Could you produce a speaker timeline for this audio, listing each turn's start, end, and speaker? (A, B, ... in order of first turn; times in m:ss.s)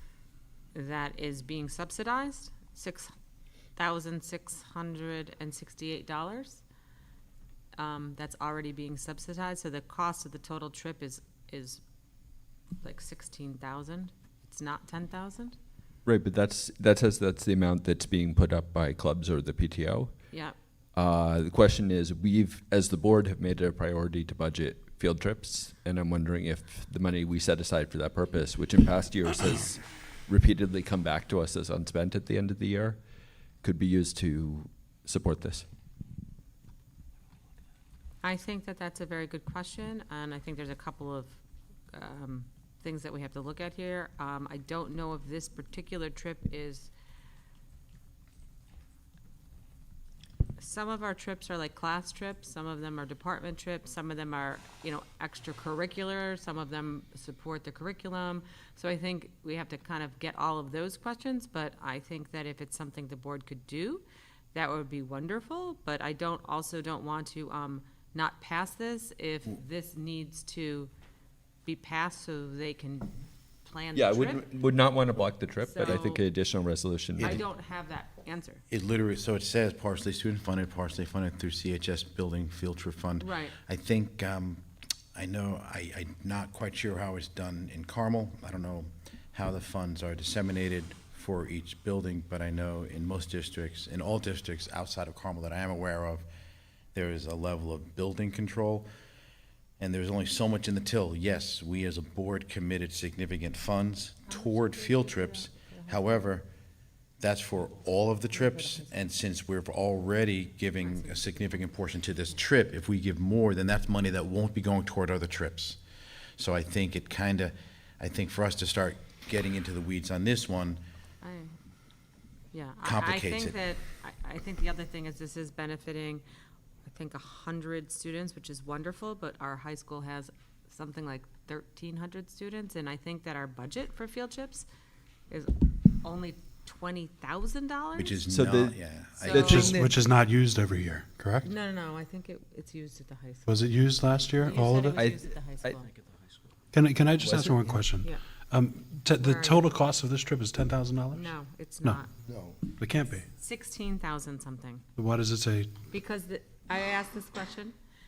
0:00.7-0:03.1 A
0:03.8-0:06.6 A
0:07.8-0:11.8 A
0:12.8-0:15.6 A
0:16.0-0:20.2 B
0:20.3-0:20.6 A
0:20.9-0:33.0 B
0:33.6-0:35.6 B
0:38.2-0:41.4 A
0:41.9-0:46.9 A
0:50.6-1:10.9 A
1:11.6-1:14.4 A
1:13.9-1:17.4 B
1:15.6-1:16.2 A
1:17.2-1:18.6 A
1:18.7-1:36.2 C
1:23.2-1:23.6 A
1:36.9-1:38.9 C
1:39.8-1:46.4 C
1:44.3-1:46.2 A
1:47.2-1:55.8 C
1:48.3-1:49.0 A
1:50.8-1:51.6 A
1:56.4-2:00.8 C
2:01.2-2:01.5 A
2:02.5-2:06.2 A
2:02.8-2:03.6 C
2:06.8-2:14.7 A
2:15.3-2:18.2 A
2:18.0-2:19.8 C
2:18.3-2:20.0 B
2:19.2-2:19.8 A
2:19.5-2:21.5 D
2:21.4-2:23.6 A
2:23.5-2:25.1 D
2:24.4-2:25.9 A
2:24.9-2:25.8 B
2:26.7-2:32.0 D
2:27.2-2:27.7 B
2:29.2-2:29.7 A
2:31.1-2:32.1 A
2:32.7-2:33.2 D
2:33.3-2:34.8 A
2:35.0-2:35.7 D
2:35.9-2:37.7 A